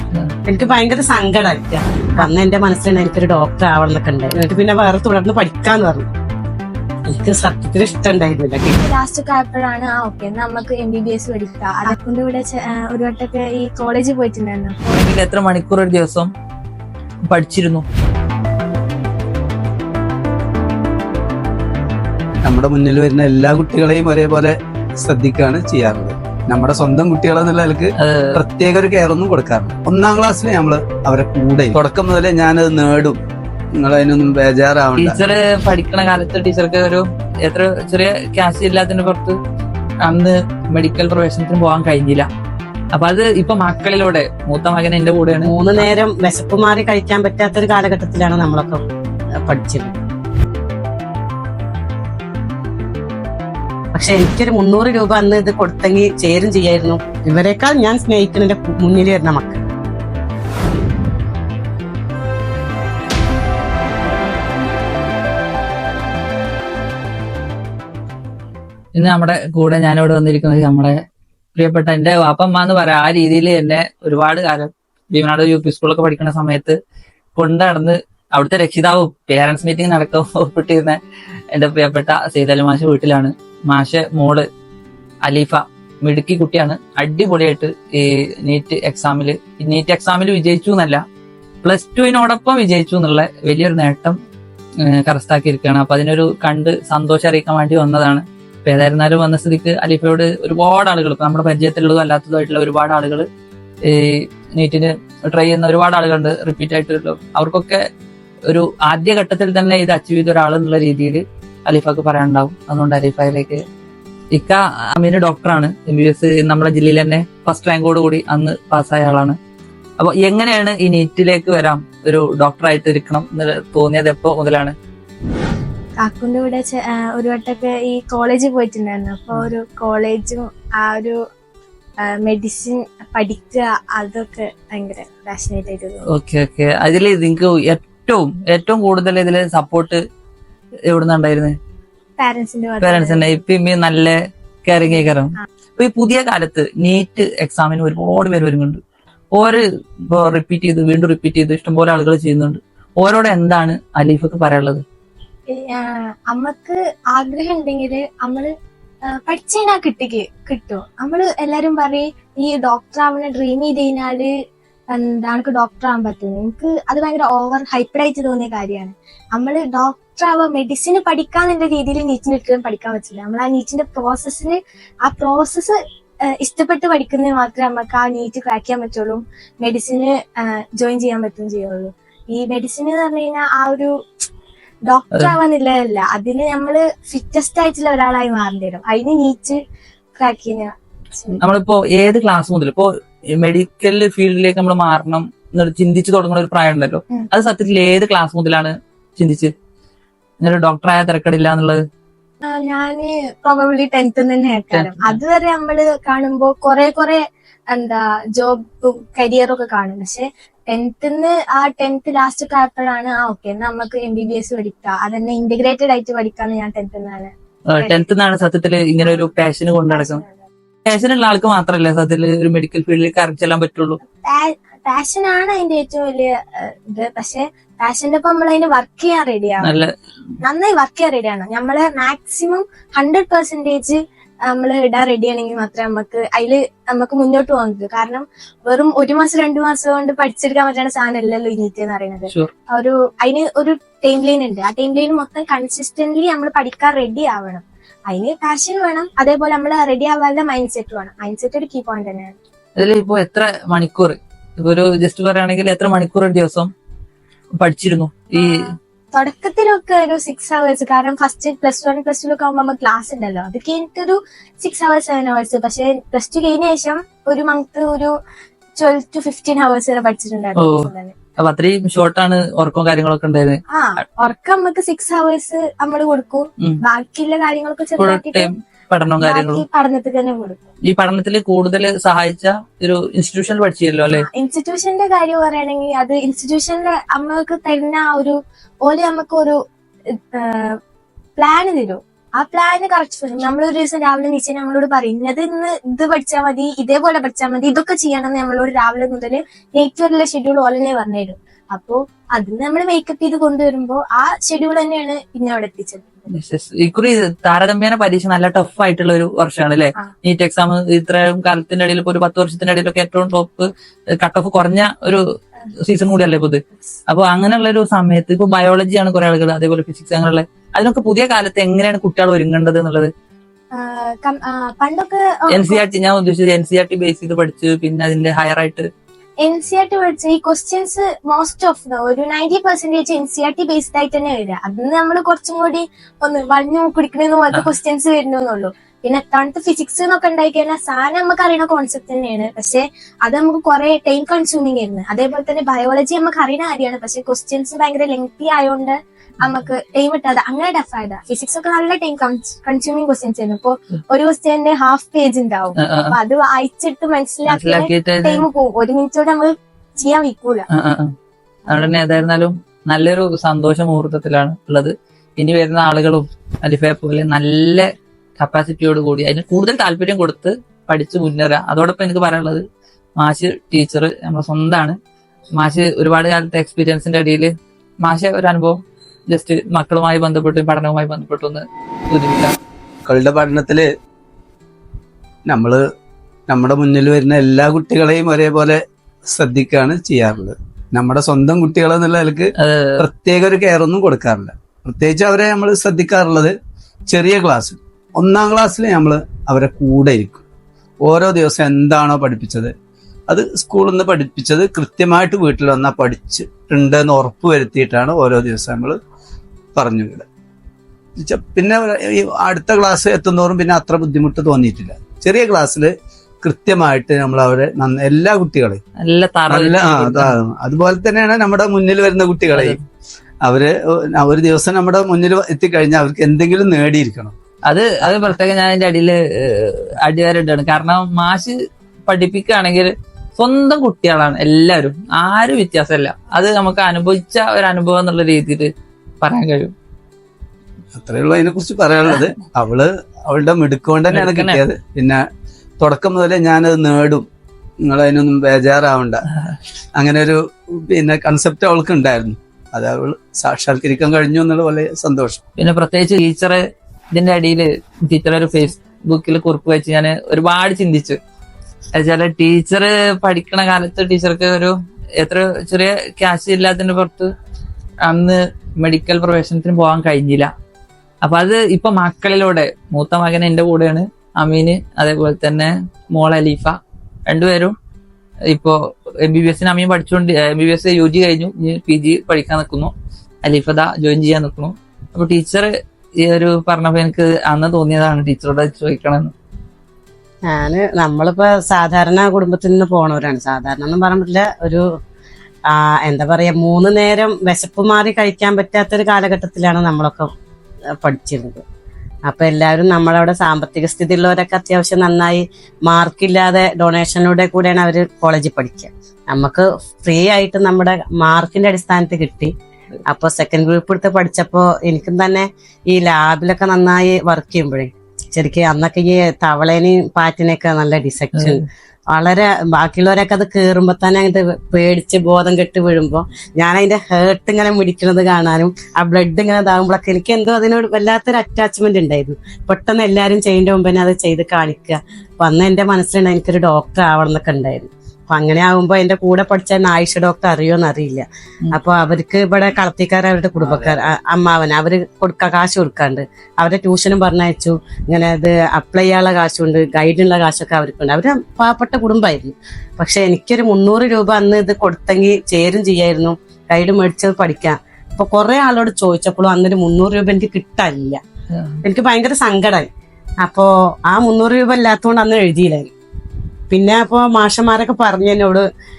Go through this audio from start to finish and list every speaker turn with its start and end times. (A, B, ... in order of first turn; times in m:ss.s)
0:00.4-0:06.1 A
0:07.1-0:08.8 A
0:08.8-0:14.8 B
0:14.9-0:16.3 C
0:17.3-0:17.8 C
0:22.4-0:33.2 D
0:28.0-0:28.4 C
0:33.8-0:35.2 D
0:35.0-0:39.4 C
0:40.0-0:42.3 C
0:42.9-0:45.9 C
0:45.4-0:48.8 A
0:49.4-0:50.0 A
0:53.9-0:59.6 A
1:08.9-1:11.0 C
1:11.6-1:16.8 C
1:17.4-1:21.0 C
1:21.5-1:24.4 C
1:25.2-1:31.0 C
1:31.6-1:34.1 C
1:34.8-1:43.2 C
1:43.8-1:47.8 C
1:48.4-1:53.6 C
1:54.3-1:59.4 C
2:00.0-2:04.7 C
2:06.0-2:11.2 B
2:12.0-2:16.0 B
2:16.1-2:20.0 C
2:20.9-2:21.6 C
2:22.2-2:23.2 B
2:22.8-2:28.8 C
2:29.3-2:34.8 C
2:35.5-2:38.5 B
2:39.0-2:44.3 B
2:44.9-3:03.9 B
3:04.8-3:09.6 B
3:10.2-3:11.4 B
3:11.4-3:19.5 C
3:20.4-3:21.8 C
3:22.4-3:38.0 B
3:24.7-3:25.2 C
3:37.7-3:40.2 C
3:39.0-3:39.3 B
3:39.9-3:40.3 B
3:40.8-3:44.0 C
3:44.2-3:49.7 B
3:49.6-3:49.9 C
3:50.4-4:12.3 B
4:12.8-4:16.7 C
4:17.6-4:18.5 C
4:18.3-4:28.1 B
4:28.8-4:31.1 B
4:30.6-4:33.6 C
4:33.7-4:38.5 B
4:38.0-4:39.6 C
4:39.2-4:40.6 B
4:40.9-4:44.2 C
4:44.1-4:49.6 B
4:50.1-4:50.8 B
4:51.4-5:06.3 B
5:06.3-5:13.7 C
5:14.2-5:15.2 C
5:15.8-5:23.1 C
5:23.7-5:25.8 B
5:25.5-5:28.9 C
5:29.4-6:00.6 B
5:55.8-5:56.1 C
5:57.5-5:58.4 C
6:00.7-6:01.1 C
6:01.7-6:12.6 C
6:13.2-6:15.0 C
6:15.6-6:17.5 C
6:18.0-6:18.8 C
6:19.3-6:22.6 C
6:23.0-6:23.9 D
6:25.4-6:25.8 D
6:26.5-6:36.5 D
6:32.6-6:33.0 C
6:37.1-6:40.4 D
6:41.0-6:42.7 D
6:43.3-6:49.0 D
6:49.7-6:50.2 D
6:51.2-6:55.9 D
6:56.4-6:58.8 D
6:59.0-7:00.3 C
6:59.5-7:02.8 D
7:02.5-7:02.8 C
7:03.4-7:07.3 D
7:07.6-7:11.5 C
7:12.1-7:18.7 C
7:19.2-7:19.7 C
7:20.9-7:25.2 D
7:24.1-7:24.6 C
7:25.8-7:27.2 D
7:27.8-7:29.2 D
7:30.0-7:35.4 D
7:35.6-7:36.6 C
7:37.1-7:41.2 C
7:41.9-7:47.3 C
7:48.0-7:50.5 C
7:51.2-7:57.7 C
7:58.5-8:02.9 C
8:03.4-8:05.7 C
8:06.2-8:09.3 C
8:10.5-8:14.8 A
8:15.7-8:20.3 A
8:21.0-8:21.6 A
8:22.2-8:32.5 A
8:33.0-9:21.2 A
9:21.5-9:21.8 C
9:21.8-9:22.9 A
9:23.4-9:25.9 A
9:26.7-9:28.6 A